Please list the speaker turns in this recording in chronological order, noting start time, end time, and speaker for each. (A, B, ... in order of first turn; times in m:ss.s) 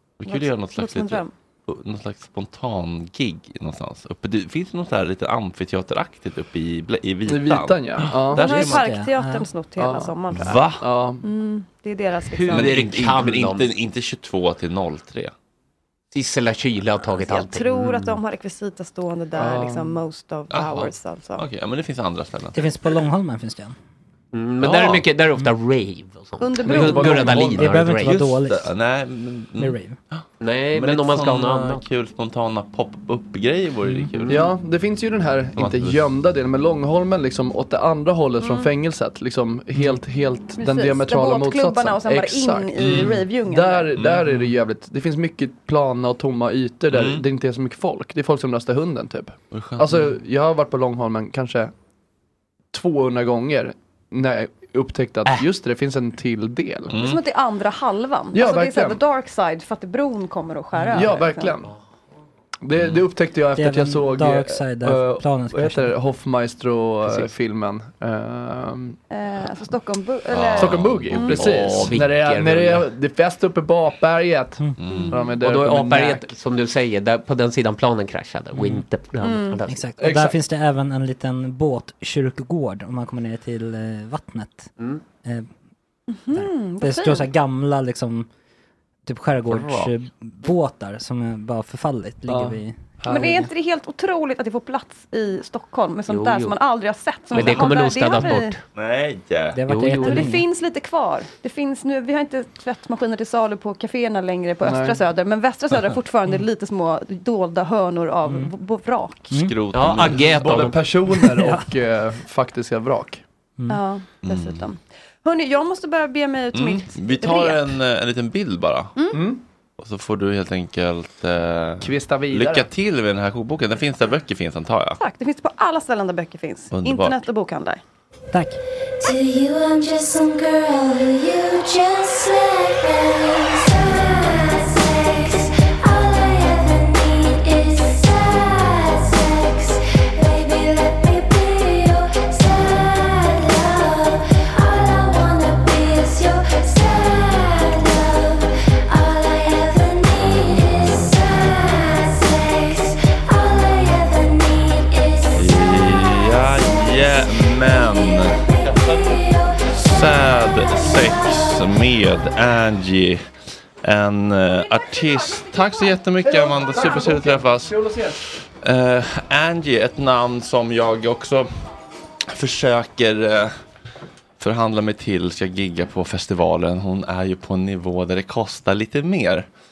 0:00.2-0:09.0 A
0:00.2-0:01.3 B
0:07.3-0:08.5 C
0:08.4-0:12.8 B
0:08.4-0:09.5 D
0:09.8-0:10.2 C
0:10.3-0:10.8 A
0:10.8-0:11.2 C
0:12.3-0:13.7 E
0:12.5-0:15.3 A
0:16.1-0:18.2 E
0:17.1-0:21.4 B
0:19.3-0:20.0 C
0:20.5-0:22.6 A
0:22.5-0:23.8 D
0:24.3-0:28.3 E
0:24.6-0:25.0 A
0:26.4-0:27.4 B
0:26.6-0:27.7 C
0:26.8-0:28.7 D
0:27.3-0:34.5 A
0:29.6-0:30.0 D
0:30.4-0:31.8 E
0:34.3-0:51.7 C
0:35.6-0:36.0 A
0:38.4-0:38.7 B
0:40.6-0:43.9 B
0:42.8-0:43.2 A
0:43.9-0:44.3 A
0:46.9-0:47.2 A
0:49.5-0:50.1 A
0:52.7-0:57.0 C
0:56.9-0:57.2 A
0:57.0-1:01.5 B
0:58.3-0:59.0 C
1:00.9-1:01.7 C
1:02.6-1:09.0 C
1:02.8-1:03.0 A
1:03.6-1:05.9 D
1:09.1-1:11.4 B
1:10.3-1:12.0 A
1:10.6-1:16.3 C
1:11.2-1:12.9 E
1:14.8-1:15.2 A
1:15.4-1:19.8 E
1:18.6-1:18.8 D
1:19.2-1:19.6 B
1:19.7-1:24.7 D
1:20.0-1:20.4 C
1:25.2-1:25.5 D
1:26.1-1:27.3 B
1:26.3-1:28.3 D
1:29.0-1:33.4 D
1:32.3-1:33.5 C
1:33.1-1:38.6 B
1:36.1-1:36.6 E
1:37.3-1:38.6 E
1:37.4-1:37.6 A
1:38.7-1:39.6 A
1:39.5-1:40.5 D
1:39.7-1:40.4 E
1:40.0-1:49.3 B
1:44.6-1:45.0 C
1:48.2-1:48.5 D
1:49.3-1:49.6 D
1:49.3-1:50.7 A
1:49.7-1:50.8 E
1:50.3-1:53.2 C
1:51.2-1:51.6 D
1:53.7-1:57.6 B
1:54.2-1:54.7 A
1:56.5-1:59.0 A
1:59.1-1:59.4 C
1:59.8-2:05.0 A
2:01.8-2:02.7 C
2:05.0-2:07.8 B
2:06.7-2:07.2 A
2:08.3-2:08.6 D
2:09.0-2:35.6 F
2:35.3-2:39.2 A
2:36.6-2:40.0 F
2:39.7-2:43.2 A
2:40.7-2:41.6 F
2:43.8-2:47.8 A
2:46.2-2:48.2 C
2:48.3-2:51.5 A
2:52.3-2:53.5 A
2:54.4-2:59.5 A